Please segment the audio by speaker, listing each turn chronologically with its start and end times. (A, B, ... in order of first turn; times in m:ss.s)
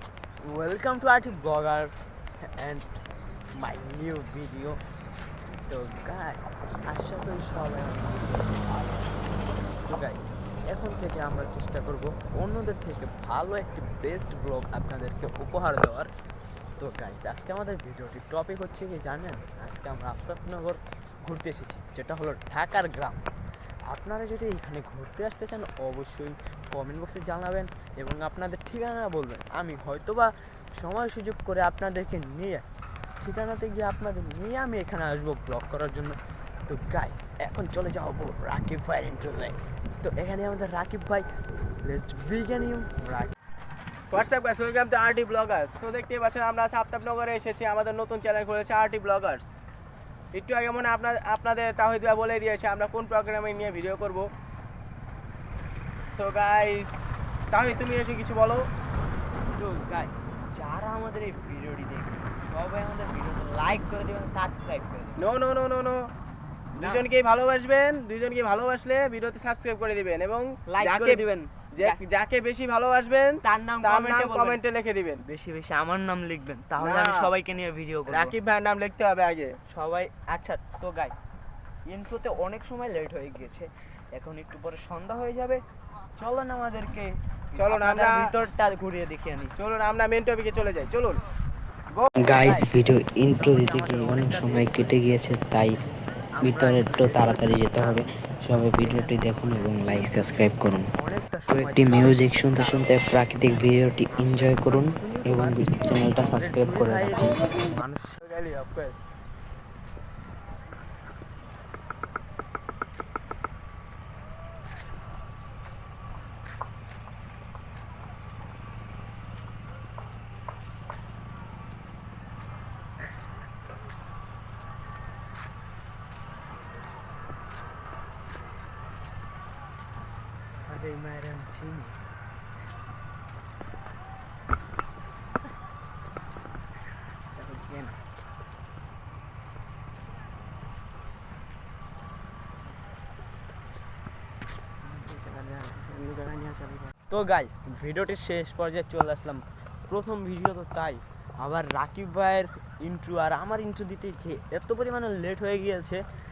0:00.4-0:02.8 A
0:03.6-0:04.8 A
0:05.7-0:09.2 A
0:09.8-0:16.1 A
0:16.8-0:23.2 A
0:23.9-0:32.6 A
0:33.2-0:41.3 A
0:41.8-0:43.3 A
0:44.1-0:49.6 B
0:50.3-0:54.3 B
0:56.1-0:58.7 B
0:59.4-1:05.2 A
1:05.2-1:06.1 B
1:06.8-1:07.0 A
1:06.8-1:15.2 B
1:10.7-1:12.0 A
1:13.4-1:14.6 A
1:15.2-1:18.3 A
1:16.8-1:17.3 B
1:18.1-1:19.5 B
1:19.7-1:21.2 A
1:21.9-1:25.6 A
1:26.2-1:29.5 A
1:27.6-1:28.2 B
1:29.6-1:31.2 B
1:32.2-1:35.8 C
1:32.3-1:32.7 A
1:33.3-1:35.1 A
1:36.4-1:38.1 A
1:36.4-1:40.9 C
1:38.6-1:42.9 A
1:41.5-1:47.4 C
1:44.1-1:48.2 A
1:48.2-1:48.9 B
2:10.6-2:12.0 A
2:17.3-2:18.0 A
2:24.8-2:26.9 B
2:27.1-2:36.0 A